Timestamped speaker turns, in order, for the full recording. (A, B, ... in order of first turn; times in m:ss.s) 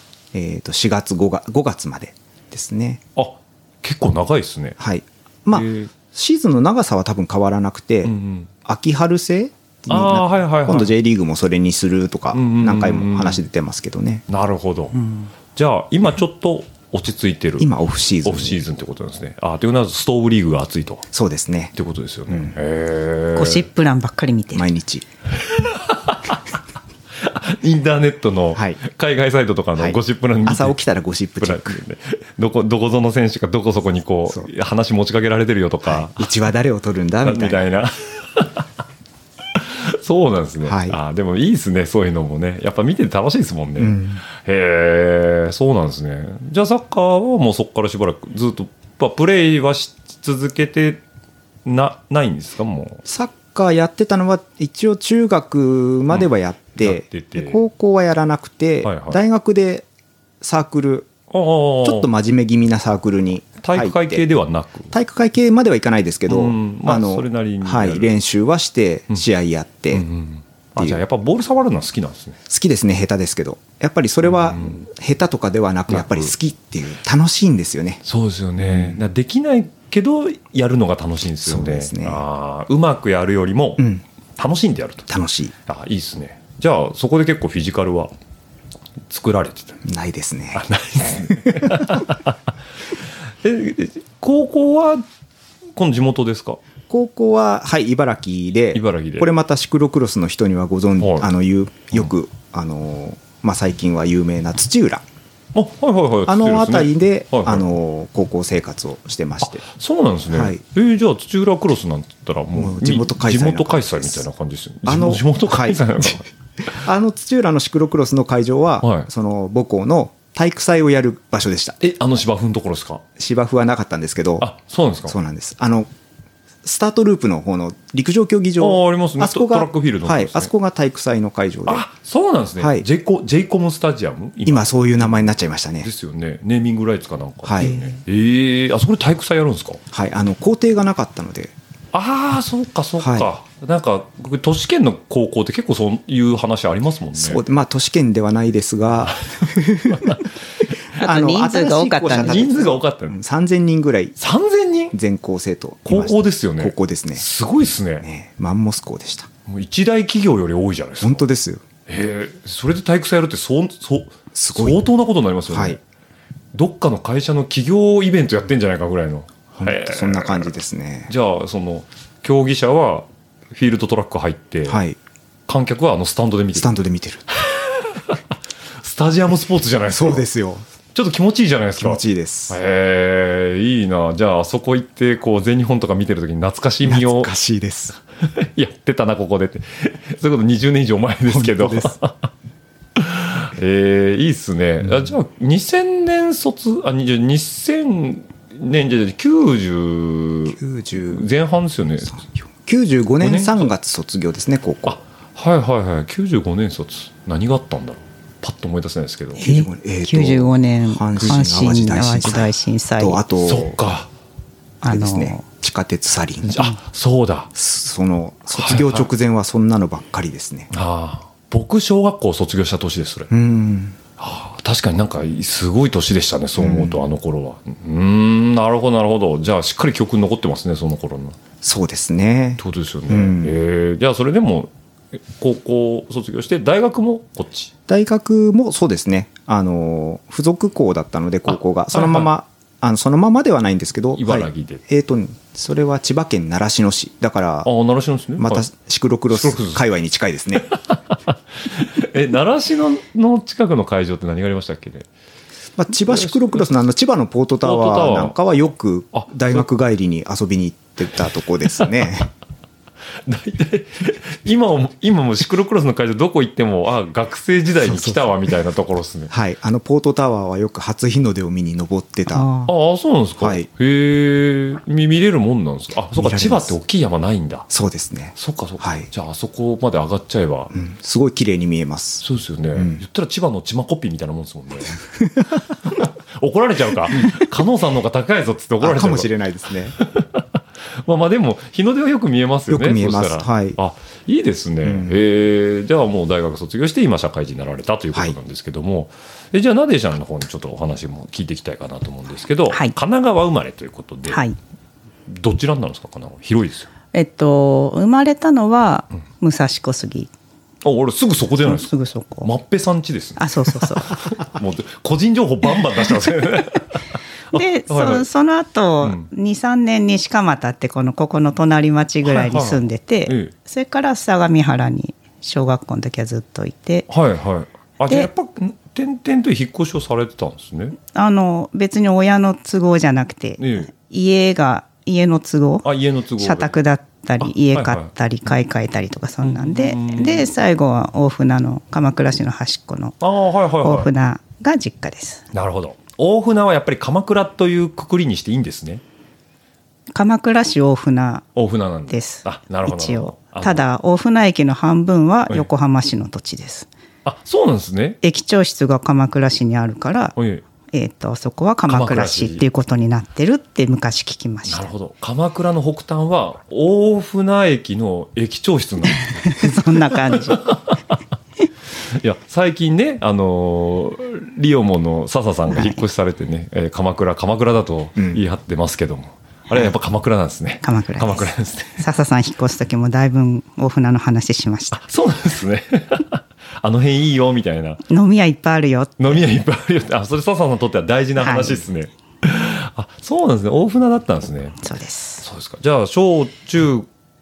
0:00.3-0:03.0 A
0:03.2-0:04.8 B
0:04.8-0:08.1 A
0:05.5-0:05.9 B
0:08.0-0:08.5 B
0:08.6-0:14.2 A
0:09.9-0:10.9 B
0:12.3-0:13.4 B
0:14.3-0:15.0 B
0:15.0-0:15.3 C
0:15.6-0:17.7 B
0:17.6-0:18.6 A
0:18.2-0:21.1 B
0:21.1-0:21.7 A
0:21.8-0:23.6 B
0:22.3-0:22.5 A
0:23.4-0:24.7 C
0:24.5-0:25.1 A
0:25.4-0:26.5 B
0:27.2-0:30.8 B
0:29.8-0:31.8 A
0:31.4-0:36.3 B
0:35.9-0:37.6 A
0:37.2-0:38.7 B
0:39.6-0:51.0 B
0:40.6-0:41.0 A
0:43.8-0:44.2 A
0:51.6-0:53.0 B
0:53.1-0:59.9 A
0:56.1-0:57.6 B
0:58.8-0:59.2 B
1:00.4-1:01.1 A
1:01.3-1:02.1 B
1:01.8-1:04.2 A
1:03.6-1:04.9 B
1:04.9-1:10.0 A
1:06.3-1:08.1 B
1:09.9-1:12.4 B
1:12.5-1:18.0 A
1:14.3-1:14.8 B
1:15.9-1:16.3 B
1:18.0-1:25.1 B
1:18.6-1:19.0 A
1:21.4-1:22.2 A
1:23.8-1:24.0 A
1:25.1-1:25.5 A
1:25.7-1:28.1 B
1:29.1-1:29.8 B
1:29.8-1:32.0 A
1:30.6-1:32.4 B
1:33.4-1:35.0 B
1:35.8-1:36.6 B
1:36.9-1:45.0 A
1:38.7-1:39.3 B
1:41.0-1:41.3 B
1:45.5-1:47.7 B
1:46.3-1:49.6 A
1:49.4-1:56.3 B
1:50.3-1:50.6 A
1:52.6-1:54.2 A
1:54.9-1:56.1 A
1:56.7-2:01.8 A
1:58.8-1:59.1 B
2:01.8-2:03.0 B
2:03.2-2:04.5 A
2:04.4-2:05.2 B
2:05.1-2:05.9 A
2:06.6-2:11.8 A
2:08.6-2:10.5 B
2:11.7-2:19.8 B
2:12.6-2:12.9 A
2:14.4-2:15.9 A
2:17.4-2:17.8 A
2:17.7-2:18.0 C
2:19.9-2:21.5 A
2:21.9-2:27.4 B
2:23.0-2:23.3 A
2:27.2-2:30.2 A
2:29.0-2:30.3 B
2:31.0-2:32.6 C
2:31.0-2:34.2 A
2:32.1-2:33.2 B
2:34.2-2:35.0 B
2:34.9-2:37.2 A
2:35.9-2:38.1 B
2:38.0-2:39.3 A
2:39.5-2:41.2 B
2:41.0-2:41.6 A
2:41.9-2:45.8 B
2:44.3-2:44.9 A
2:45.5-2:45.8 A
2:46.5-2:50.5 B
2:49.6-2:51.1 A
2:51.1-2:54.8 B
2:54.7-2:55.0 A
2:55.5-2:56.8 B
2:56.5-2:57.2 A
2:57.3-2:58.2 B
2:58.8-3:00.2 B
2:59.9-3:00.7 A
3:00.9-3:07.3 B
3:01.8-3:02.6 A
3:06.8-3:08.0 A
3:08.3-3:12.3 B
3:11.3-3:12.0 A
3:13.0-3:22.2 B
3:20.5-3:21.3 A
3:22.1-3:25.0 A
3:23.2-3:23.7 B
3:24.9-3:29.4 B
3:29.4-3:33.8 A
3:29.4-3:33.2 C
3:31.2-3:31.7 B
3:33.4-3:34.1 B
3:34.8-3:35.4 C
3:34.8-3:36.7 A
3:36.5-3:37.5 B
3:37.6-3:40.7 A
3:38.6-3:39.1 B
3:40.7-3:43.3 B
3:43.3-3:44.0 A
3:44.2-3:51.4 B
3:46.6-3:47.0 A
3:51.6-3:53.6 A
3:52.6-3:57.7 B
3:57.9-4:07.7 A
4:01.5-4:02.3 B
4:04.2-4:04.8 B
4:07.6-4:08.6 B
4:08.4-4:10.7 A
4:09.3-4:09.8 B
4:10.6-4:15.1 B
4:15.8-4:22.3 A
4:16.1-4:16.6 B
4:17.6-4:18.4 B
4:19.1-4:19.7 B
4:23.2-4:29.3 B
4:27.8-4:28.4 A
4:29.3-4:32.5 A
4:32.3-4:32.7 C
4:32.6-4:37.7 B
4:33.4-4:33.7 A
4:36.1-4:36.8 A
4:37.7-4:39.1 A
4:38.4-4:40.7 B
4:40.7-4:42.2 A
4:42.2-4:45.0 B
4:42.8-4:43.0 A
4:45.1-4:45.5 A
4:45.9-4:49.3 B
4:48.8-4:50.0 A
4:50.0-4:50.5 B
4:51.0-5:04.4 B
4:52.7-4:53.8 A
4:54.8-4:55.1 A
5:02.7-5:03.0 C
5:04.3-5:04.6 C
5:05.3-5:06.9 B
5:07.1-5:10.3 C
5:10.8-5:18.3 B
5:11.6-5:12.5 C
5:13.4-5:14.3 C
5:17.5-5:27.1 C
5:19.0-5:19.3 B
5:22.2-5:23.5 B
5:27.1-5:31.0 B
5:31.1-5:35.9 C
5:33.6-5:33.9 B
5:35.8-5:36.8 B
5:36.4-5:43.2 C
5:37.4-5:38.1 B
5:39.4-5:40.5 B
5:43.2-5:44.1 B
5:43.8-5:45.5 C
5:45.5-5:49.0 B
5:50.1-5:51.5 C
5:51.6-5:53.8 B
5:52.1-5:56.9 C
5:57.2-5:58.2 B
5:58.2-6:00.4 C
6:00.4-6:00.6 B
6:00.9-6:04.9 C
6:01.9-6:02.6 B
6:04.7-6:11.0 B
6:09.3-6:10.6 C
6:12.1-6:22.0 B
6:15.7-6:16.0 C
6:20.8-6:25.0 C
6:24.9-6:28.0 B
6:28.1-6:29.4 C
6:29.2-6:34.9 B
6:31.4-6:31.8 C
6:34.8-6:35.4 C
6:35.4-6:37.1 B